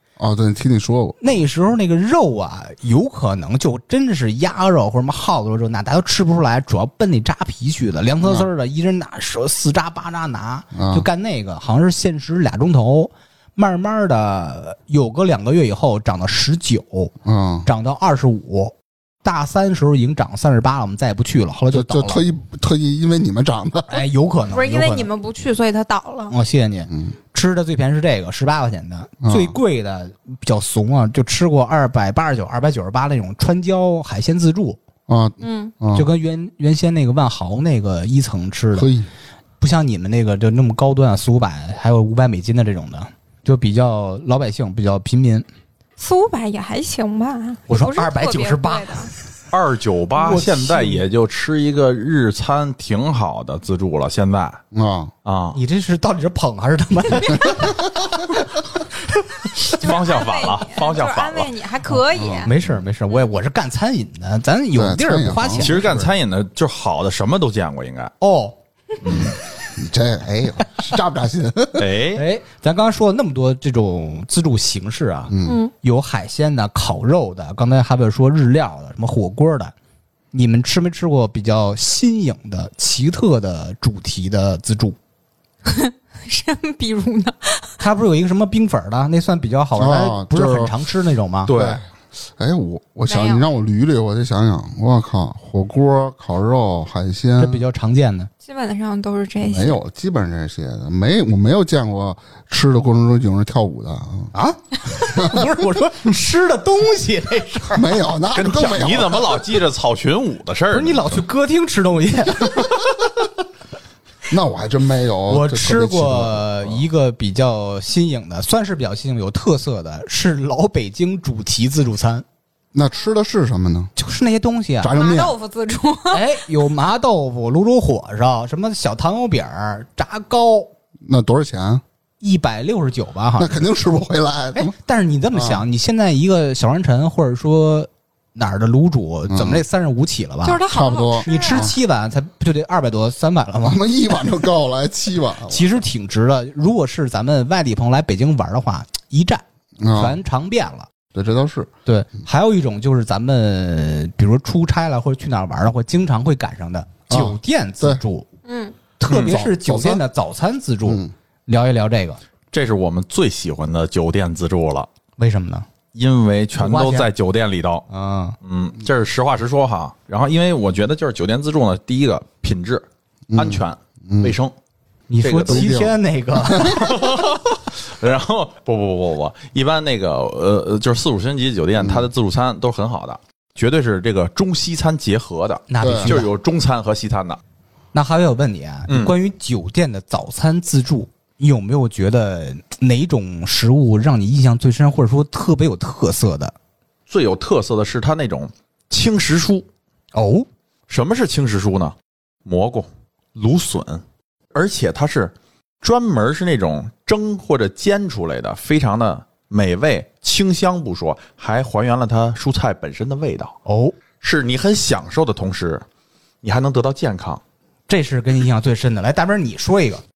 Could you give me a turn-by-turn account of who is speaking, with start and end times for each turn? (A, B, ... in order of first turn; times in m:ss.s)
0:00.2-0:01.2 A
0:01.2-0:17.1 B
0:08.2-0:08.5 A
0:10.7-0:11.0 A
0:17.2-0:17.7 A
0:17.6-0:22.2 B
0:21.7-0:23.9 A
0:23.9-0:25.1 B
0:24.5-0:26.3 C
0:26.3-0:34.8 B
0:29.2-0:29.5 A
0:35.1-0:36.0 A
0:35.4-0:35.7 C
0:35.9-0:38.9 B
0:38.7-0:39.1 A
0:39.6-0:45.4 B
0:46.0-0:49.1 C
0:47.7-0:49.1 B
0:49.5-0:54.6 D
0:50.2-0:51.0 B
0:54.7-0:55.1 A
0:55.2-0:55.6 D
0:55.5-0:59.7 B
0:59.7-1:02.5 C
0:59.8-1:01.5 D
1:02.1-1:02.5 A
1:02.4-1:06.1 B
1:04.7-1:05.8 A
1:05.6-1:08.1 D
1:08.2-1:08.6 B
1:09.0-1:09.3 D
1:09.8-1:11.9 A
1:11.8-1:12.2 D
1:12.1-1:19.7 B
1:15.3-1:15.6 A
1:15.4-1:15.7 C
1:20.3-1:25.0 B
1:25.7-1:27.7 C
1:27.8-1:31.5 B
1:29.8-1:30.8 A
1:31.4-1:31.8 D
1:31.5-1:31.8 A
1:32.4-1:37.6 A
1:33.1-1:33.4 C
1:37.4-1:38.3 B
1:38.4-1:39.8 C
1:39.4-1:44.3 A
1:44.3-1:47.9 B
1:45.2-1:45.4 A
1:47.7-1:49.4 A
1:48.3-1:51.2 D
1:50.7-1:52.8 B
1:54.3-1:56.8 A
1:55.3-2:02.2 B
2:02.7-2:03.9 A
2:04.0-2:04.9 B
2:04.8-2:05.4 A
2:04.9-2:06.3 C
2:06.1-2:10.7 B
2:11.0-2:11.8 A
2:12.2-2:13.6 B
2:13.4-2:14.7 A
2:14.5-2:20.6 B
2:15.3-2:15.6 A
2:19.3-2:19.6 A
2:20.4-2:21.7 C
2:20.7-2:21.7 A
2:21.3-2:23.8 B
2:23.6-2:25.8 A
2:25.5-2:30.9 B
2:29.8-2:30.2 A
2:31.1-2:31.7 A
2:31.8-2:38.3 B
2:37.1-2:38.0 A
2:38.4-2:38.8 C
2:39.0-2:42.2 B
2:39.1-2:39.4 D
2:39.1-2:40.0 A
2:40.9-2:41.1 A
2:42.5-2:44.9 D
2:45.2-2:45.7 B
2:45.9-2:47.8 D
2:46.6-2:47.1 B
2:47.9-2:48.4 B
2:48.4-2:54.5 D
2:53.3-2:54.4 A
2:55.1-2:57.0 B
2:55.2-2:55.7 D
2:55.4-2:56.9 A
2:56.6-3:07.4 D
3:01.8-3:02.0 A
3:05.7-3:06.3 B
3:05.8-3:06.2 A
3:07.9-3:16.5 B
3:08.9-3:09.1 D
3:17.1-3:19.7 D
3:20.1-3:20.5 B
3:20.9-3:24.0 D
3:24.5-3:33.6 D
3:33.6-3:33.9 B
3:34.2-3:35.8 D
3:36.4-3:37.4 D
3:37.9-3:40.0 B